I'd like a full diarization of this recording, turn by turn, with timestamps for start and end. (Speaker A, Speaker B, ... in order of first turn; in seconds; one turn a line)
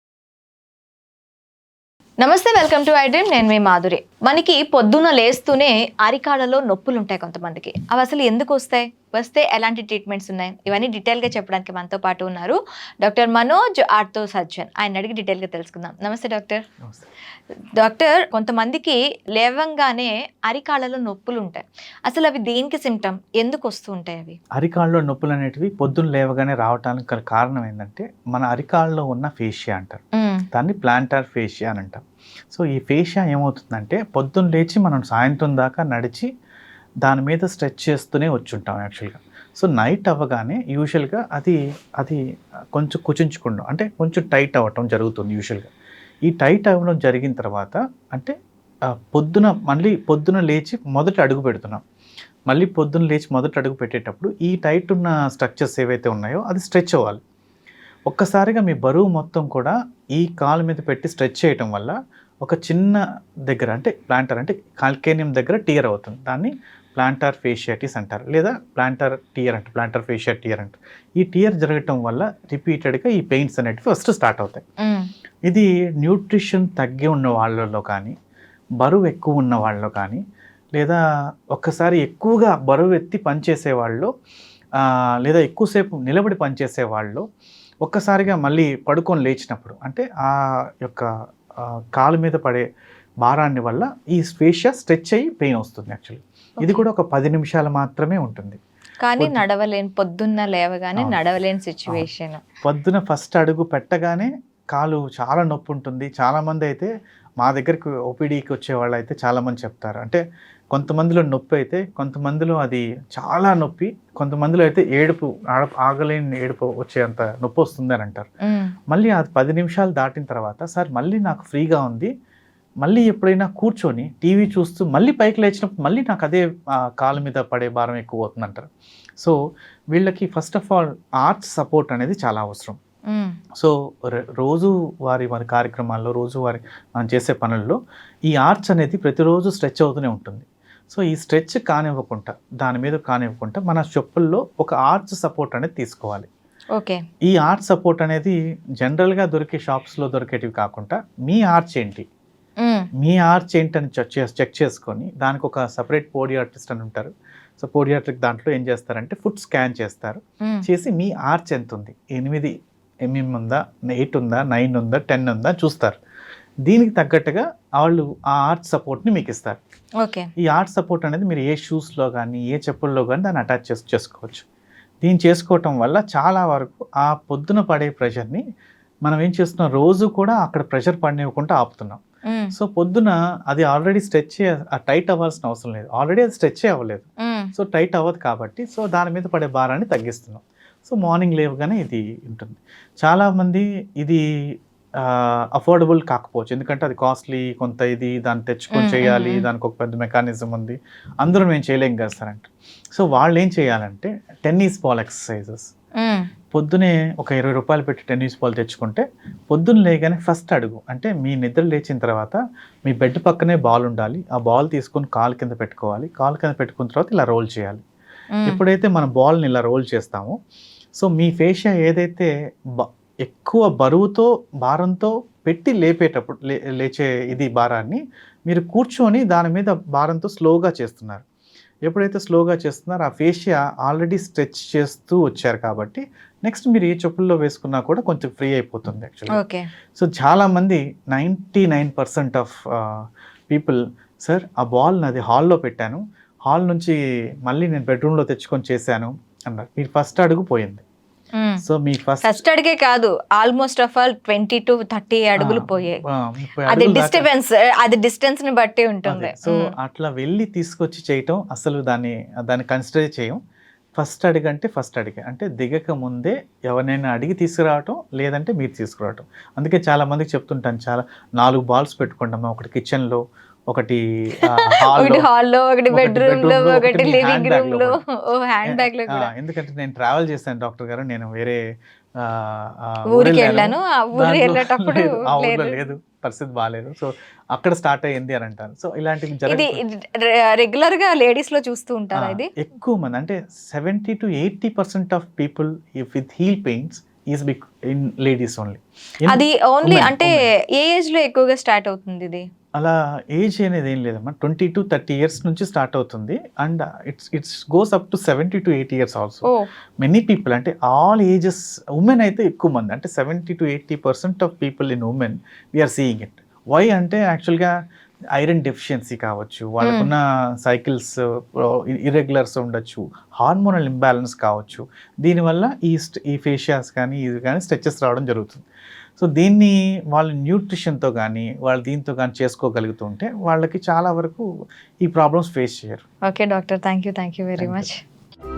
Speaker A: 2.2-16.6
Speaker B: 16.8-17.1
Speaker A: 17.8-24.4
Speaker B: 24.6-30.0
Speaker A: 30.2-30.4
Speaker B: 30.5-36.3
Speaker B: 37.0-42.2
Speaker B: 42.7-45.7
Speaker B: 46.3-48.3
Speaker B: 49.1-51.8
Speaker B: 52.5-57.2
Speaker B: 58.1-74.6
Speaker A: 74.8-75.1
Speaker B: 75.5-78.1
Speaker B: 78.8-80.2
Speaker B: 80.8-81.0
Speaker B: 81.5-84.1
Speaker B: 84.8-87.2
Speaker B: 87.8-91.1
Speaker B: 91.6-92.7
Speaker B: 93.2-98.6
Speaker A: 99.0-102.4
Speaker B: 99.2-99.4
Speaker B: 102.6-106.9
Speaker B: 107.4-110.2
Speaker B: 110.7-118.3
Speaker A: 118.4-118.7
Speaker B: 118.9-122.1
Speaker B: 122.8-129.3
Speaker B: 129.9-132.8
Speaker B: 133.6-137.8
Speaker B: 138.3-146.3
Speaker A: 146.7-147.0
Speaker B: 147.3-152.1
Speaker A: 152.6-152.9
Speaker B: 153.0-162.5
Speaker B: 163.1-166.0
Speaker B: 166.7-169.6
Speaker A: 170.0-170.3
Speaker B: 170.4-174.5
Speaker B: 175.0-178.4
Speaker B: 179.1-182.0
Speaker B: 182.5-194.2
Speaker A: 187.2-187.5
Speaker B: 195.0-205.7
Speaker A: 198.8-199.4
Speaker B: 206.5-217.8
Speaker A: 218.4-218.6
Speaker B: 218.5-220.3
Speaker B: 221.0-231.2
Speaker B: 231.9-239.4
Speaker A: 239.3-239.6
Speaker B: 239.9-250.8
Speaker A: 251.4-251.6
Speaker B: 251.6-252.4
Speaker A: 252.2-256.0
Speaker B: 255.4-257.3
Speaker A: 256.7-259.7
Speaker B: 259.1-263.4
Speaker B: 264.0-275.3
Speaker A: 274.5-279.3
Speaker B: 275.9-277.9
Speaker B: 278.6-281.6
Speaker B: 282.2-289.8
Speaker A: 283.1-285.9
Speaker A: 289.5-292.5
Speaker B: 292.1-300.4
Speaker A: 299.3-302.4
Speaker B: 302.8-309.5
Speaker B: 310.0-317.7
Speaker B: 318.4-328.7
Speaker A: 319.8-320.1
Speaker B: 329.2-334.4
Speaker B: 335.0-336.0
Speaker A: 336.3-338.0
Speaker B: 337.6-337.9